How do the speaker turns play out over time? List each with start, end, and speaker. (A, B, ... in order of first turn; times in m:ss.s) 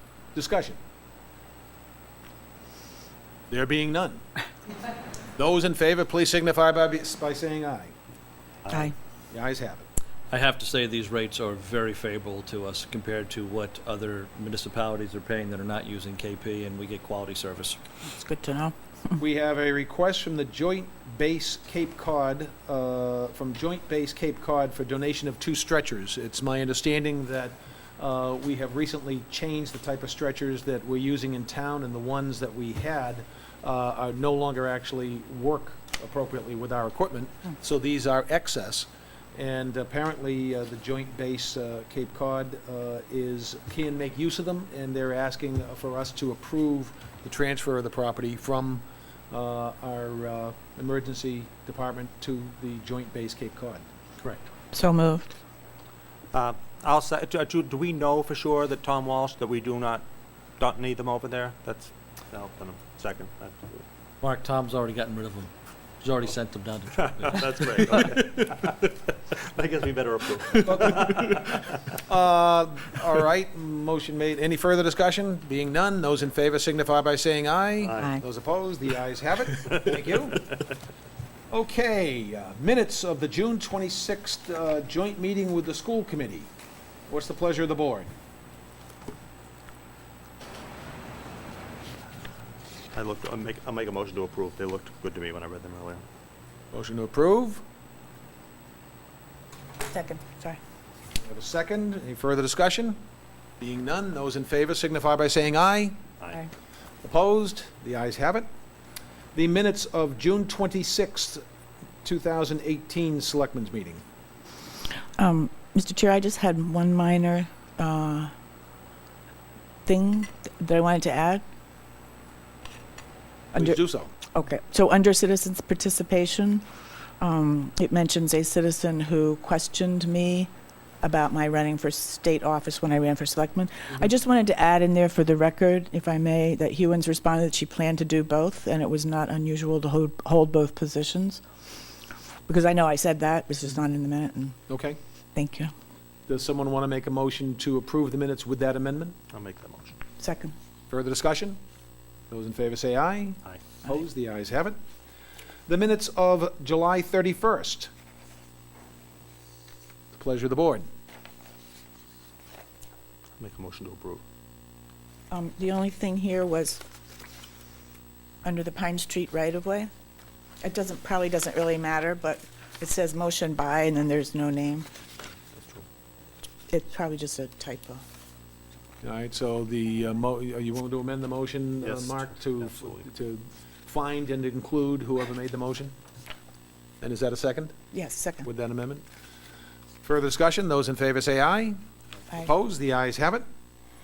0:00.3-0:00.8 A
0:03.5-0:04.2 A
0:05.4-0:07.9 A
0:08.7-0:08.9 B
0:09.3-0:09.9 A
0:10.3-0:17.8 C
0:18.0-0:18.8 D
0:19.2-0:54.5 A
0:54.7-0:55.3 D
0:56.3-1:00.1 B
1:00.6-1:03.8 B
1:04.2-1:05.5 C
1:06.0-1:08.7 C
1:07.0-1:08.8 B
1:09.3-1:12.0 B
1:10.7-1:11.1 A
1:12.1-1:20.4 A
1:17.8-1:18.1 B
1:18.0-1:18.2 D
1:21.5-1:26.5 A
1:27.1-1:28.1 A
1:32.9-1:36.0 B
1:36.7-1:37.6 A
1:39.9-1:40.6 D
1:41.2-1:43.0 A
1:43.6-1:46.0 A
1:47.0-1:48.5 A
1:49.4-1:51.4 A
1:52.0-1:54.0 A
1:55.2-1:58.3 D
1:59.9-2:01.4 D
2:03.5-2:04.1 A
2:04.3-2:06.6 D
2:07.2-2:10.5 D
2:11.0-2:21.4 D
2:22.5-2:24.6 D
2:24.7-2:25.0 A
2:25.4-2:25.7 D
2:26.3-2:29.2 A
2:29.3-2:30.0 B
2:30.2-2:30.5 D
2:30.9-2:31.6 A
2:32.3-2:34.8 A
2:35.7-2:37.9 A
2:40.1-2:40.9 A
2:43.4-2:44.2 B
2:45.3-2:46.8 D
2:48.4-2:49.9 D
2:50.6-2:54.9 D
2:55.5-2:55.8 B
2:56.7-2:58.0 D
2:59.0-3:05.9 A
3:01.8-3:03.1 B
3:07.0-3:07.8 A
3:07.9-3:08.5 D
3:08.4-3:09.0 A
3:10.0-3:11.8 A
3:12.3-3:13.4 A